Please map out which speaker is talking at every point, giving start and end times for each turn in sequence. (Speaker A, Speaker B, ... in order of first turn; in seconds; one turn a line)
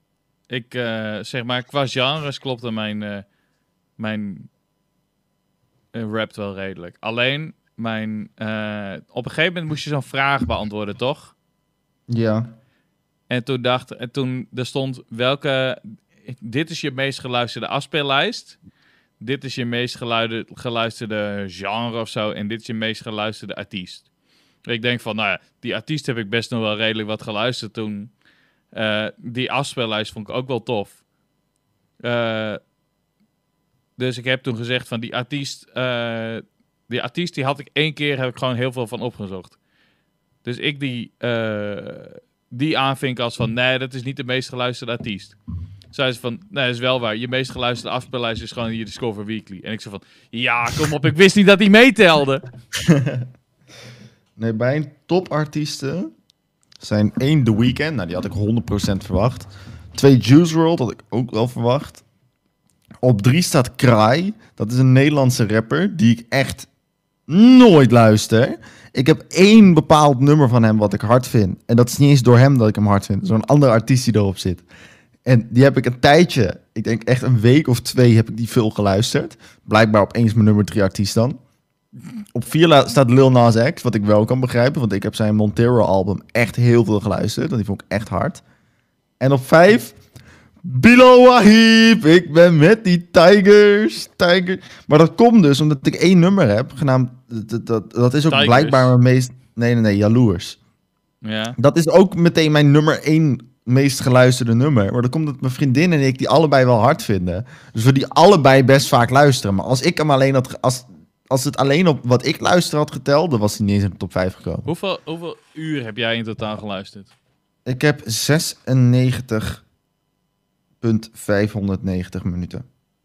Speaker A: 0.5-3.2
Speaker A: 4.0-4.5
Speaker A: 5.9-11.3
Speaker B: 12.1-12.5
Speaker A: 13.3-18.6
Speaker A: 19.2-24.1
Speaker A: 24.7-28.1
Speaker A: 28.7-31.0
Speaker A: 32.0-32.6
Speaker A: 34.0-39.6
Speaker A: 40.4-45.4
Speaker A: 45.9-52.4
Speaker B: 52.8-53.3
Speaker B: 54.4-56.1
Speaker B: 56.8-62.0
Speaker B: 63.0-66.7
Speaker B: 67.3-74.7
Speaker B: 75.2-81.4
Speaker B: 82.3-88.4
Speaker B: 89.2-90.0
Speaker B: 90.6-100.6
Speaker A: 98.3-98.9
Speaker A: 101.2-101.6
Speaker B: 101.6-114.7
Speaker A: 114.7-117.1
Speaker B: 117.7-119.6
Speaker B: 120.8-122.7